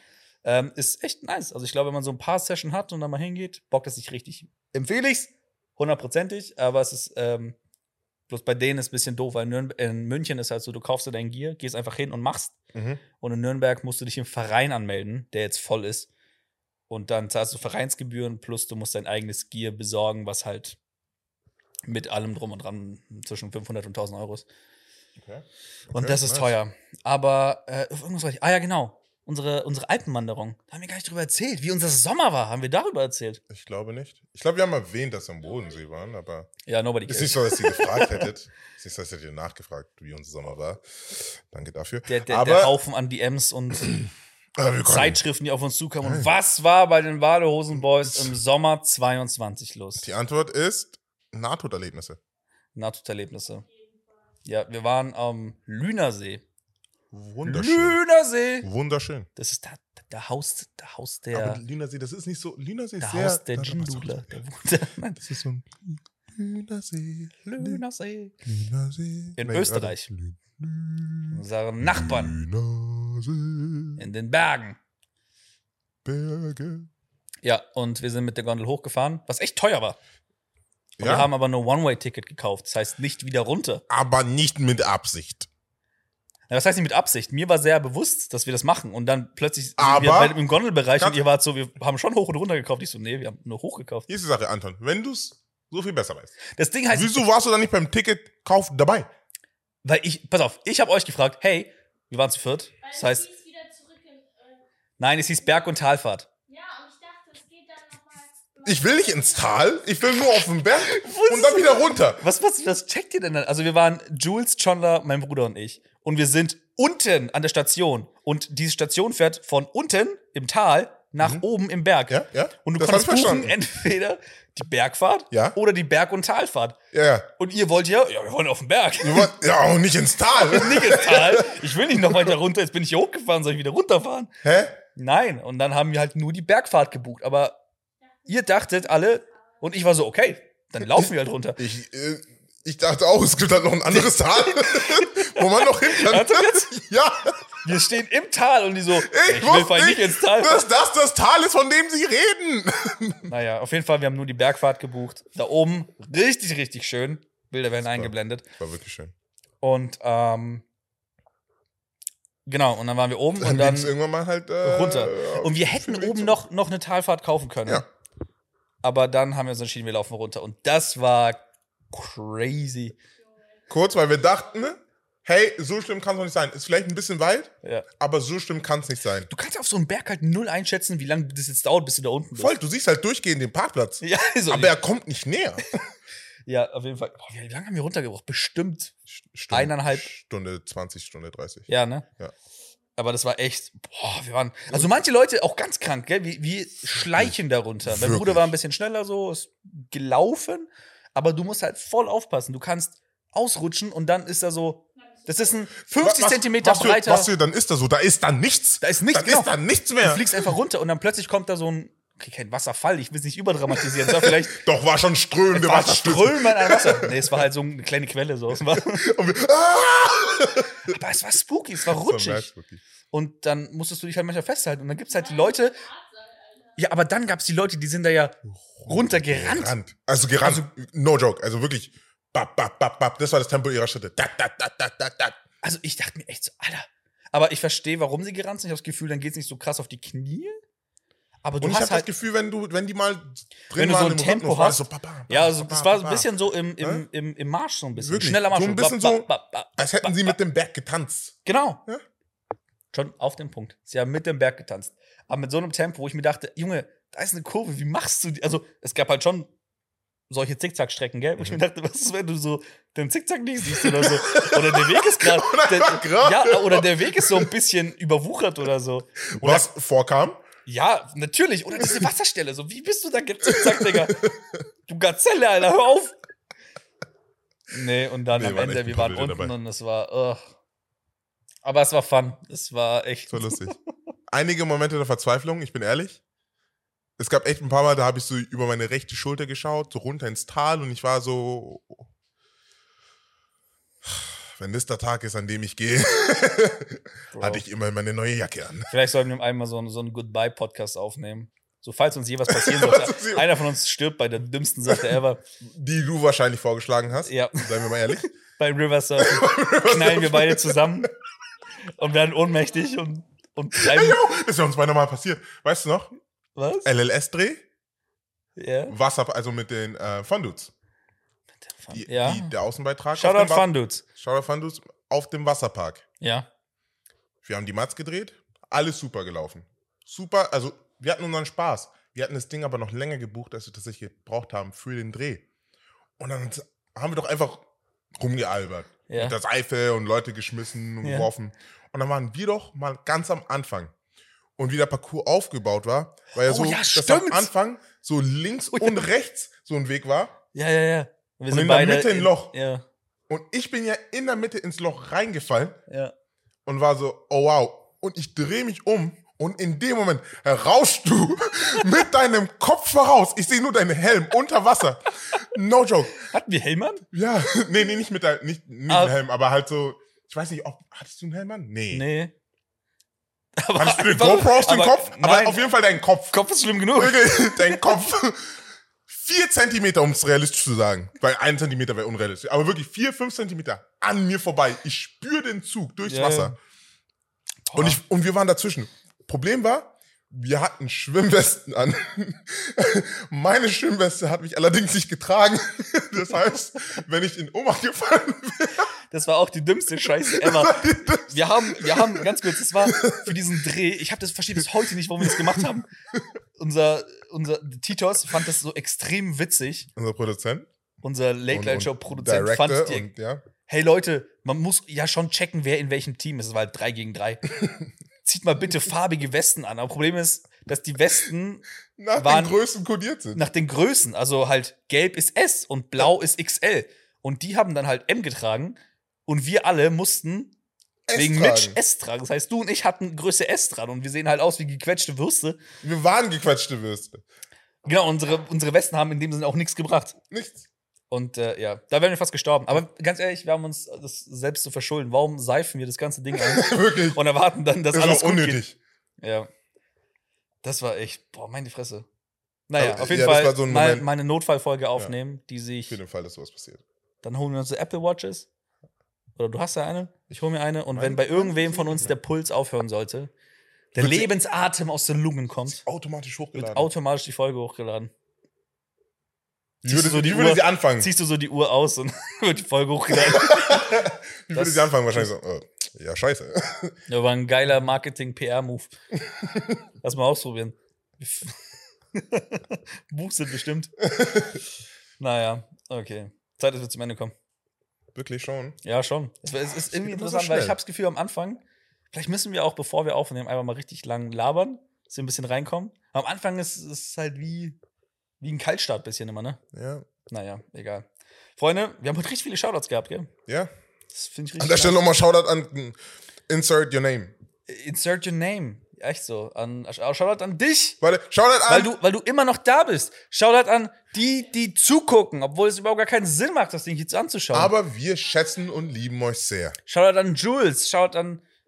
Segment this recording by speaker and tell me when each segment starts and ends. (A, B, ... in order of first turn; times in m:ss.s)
0:00.4-0:07.6 A
0:08.3-0:12.6 A
0:12.7-0:13.0 B
0:13.2-0:16.1 A
0:16.9-0:20.8 A
0:21.9-0:24.4 A
0:25.2-0:26.5 B
0:25.9-0:33.4 A
0:33.5-0:36.5 B
0:36.6-0:38.3 A
0:37.1-0:42.8 B
0:42.1-0:44.0 A
0:44.6-0:45.2 B
0:44.8-0:50.1 A
0:46.0-0:46.3 B
0:48.0-0:48.3 B
0:50.0-0:52.2 B
0:52.7-0:53.6 A
0:53.5-0:54.2 C
0:54.4-0:56.4 A
0:57.1-0:58.0 B
0:57.4-0:58.7 A
0:58.6-0:59.3 B
0:59.4-1:01.6 A
1:01.3-1:04.4 B
1:03.0-1:05.2 A
1:05.2-1:07.8 B
1:07.4-1:08.3 A
1:08.4-1:14.0 B
1:09.4-1:10.1 A
1:11.3-1:12.4 A
1:14.0-1:14.8 A
1:16.0-1:16.9 B
1:17.4-1:20.0 A
1:21.0-1:21.3 B
1:21.0-1:23.8 A
1:23.9-1:25.5 B
1:26.5-1:34.1 A
1:29.8-1:30.4 B
1:34.1-1:36.4 B
1:36.5-1:37.2 A
1:36.9-1:39.1 B
1:39.8-1:43.2 A
1:42.8-1:44.6 C
1:45.0-1:46.3 A
1:46.5-1:49.7 C
1:48.6-1:52.2 B
1:50.8-2:06.8 A
2:01.2-2:01.4 B
2:02.1-2:03.5 B
2:06.9-2:07.3 B
2:07.4-2:09.3 A
2:09.0-2:12.3 B
2:10.3-2:14.3 A
2:14.4-2:14.8 B
2:14.9-2:17.6 A
2:18.1-2:19.6 C
2:18.3-2:21.6 A
2:21.0-2:27.4 B
2:23.9-2:26.7 A
2:27.6-2:30.6 A
2:28.9-2:33.3 B
2:33.3-2:38.4 A
2:37.9-2:39.1 B
2:39.6-2:40.6 A
2:42.4-2:43.9 A
2:43.4-2:46.4 B
2:44.6-2:47.9 A
2:48.8-2:52.9 A
2:53.2-2:53.7 C
2:53.7-2:59.3 B
2:59.3-3:02.5 A
3:02.3-3:05.7 B
3:04.0-3:04.7 A
3:06.5-3:08.9 A
3:09.1-3:12.3 B
3:09.5-3:10.1 A
3:11.7-3:12.0 A
3:13.0-3:27.3 A
3:17.1-3:18.5 B
3:25.0-3:25.7 C
3:26.0-3:30.5 B
3:28.8-3:34.6 A
3:33.8-3:37.3 B
3:35.5-3:39.1 A
3:38.9-3:41.0 B
3:40.9-3:42.5 A
3:41.8-3:42.8 B
3:43.1-3:45.8 A
3:45.1-3:46.8 C
3:46.8-3:48.4 A
3:48.5-3:55.4 B
3:48.9-3:49.7 A
3:50.4-3:50.7 A
3:55.6-4:00.6 A
4:01.4-4:02.1 A
4:01.6-4:07.0 B
4:03.8-4:10.4 A
4:08.0-4:12.0 B
4:11.4-4:11.8 A
4:12.9-4:19.5 A
4:20.3-4:29.7 A
4:23.7-4:27.5 B
4:29.3-4:30.4 B
4:30.6-4:34.2 A
4:31.8-4:32.1 B
4:33.4-4:34.5 B
4:34.9-4:36.1 A
4:37.7-4:40.5 A
4:38.3-4:39.5 B
4:41.6-4:43.7 A
4:43.3-4:43.7 B
4:44.3-4:46.2 B
4:47.2-4:52.1 B
4:54.0-4:58.9 B
4:57.3-4:57.6 A
4:58.9-5:05.4 A
5:02.5-5:03.5 B
5:04.9-5:08.3 B
5:07.2-5:11.1 A
5:09.2-5:11.0 B
5:11.9-5:14.2 A
5:13.7-5:16.1 B
5:16.6-5:16.9 A
5:16.8-5:17.6 B
5:18.6-5:18.9 A
5:18.9-5:20.7 B
5:21.7-5:22.5 A
5:21.9-5:26.0 B
5:23.1-5:24.0 A
5:26.2-5:26.5 A
5:27.4-5:35.4 B
5:36.2-5:43.9 B
5:39.1-5:39.4 A
5:41.0-5:41.3 A
5:44.6-5:50.4 B
5:46.4-5:47.5 A
5:48.7-5:49.1 A
5:50.5-5:52.8 A
5:51.5-5:52.5 B
5:53.3-5:55.8 B
5:55.9-5:56.1 A
5:56.6-6:06.2 B
6:06.2-6:07.0 A
6:07.1-6:12.1 B
6:08.9-6:09.1 A
6:11.9-6:12.3 A
6:13.6-6:15.7 A
6:13.7-6:16.3 B
6:16.3-6:17.8 A
6:16.9-6:26.5 B
6:26.0-6:26.5 A
6:27.7-6:28.0 A
6:27.7-6:38.9 B
6:39.1-6:45.9 A
6:40.3-6:43.4 B
6:45.2-6:45.7 B
6:46.6-6:49.9 A
6:49.9-6:50.7 B
6:51.0-6:53.1 A
6:51.5-6:53.4 B
6:53.6-6:57.6 A
6:58.2-7:02.6 A
7:02.0-7:03.4 B
7:03.3-7:10.5 A
7:11.1-7:11.8 B
7:11.1-7:15.6 A
7:15.8-7:17.2 B
7:17.8-7:20.2 A
7:20.3-7:20.6 B
7:21.1-7:28.6 A
7:26.3-7:27.2 B
7:27.9-7:28.8 B
7:29.2-7:29.5 A
7:30.6-7:32.0 A
7:32.7-7:36.0 A
7:32.8-7:34.1 B
7:35.9-7:36.8 B
7:37.2-7:38.5 A
7:39.4-7:43.3 A
7:40.9-7:42.2 B
7:43.9-7:45.8 A
7:44.0-7:44.3 B
7:45.7-7:46.9 B
7:46.5-7:48.1 A
7:49.8-7:51.1 B
7:49.8-7:55.3 A
7:53.1-7:57.0 B
7:57.1-7:58.9 A
7:59.4-7:59.7 B
8:00.0-8:04.0 A
8:04.1-8:04.5 B
8:05.2-8:07.3 A
8:08.1-8:08.8 B
8:08.8-8:17.8 A
8:09.9-8:10.8 B
8:18.4-8:19.6 A
8:19.7-8:20.1 B
8:20.3-8:23.3 A
8:24.1-8:25.0 A
8:24.6-8:27.3 B
8:27.7-8:31.0 A
8:31.0-8:31.9 B
8:31.7-8:37.7 A
8:37.5-8:39.8 B
8:39.9-8:41.4 A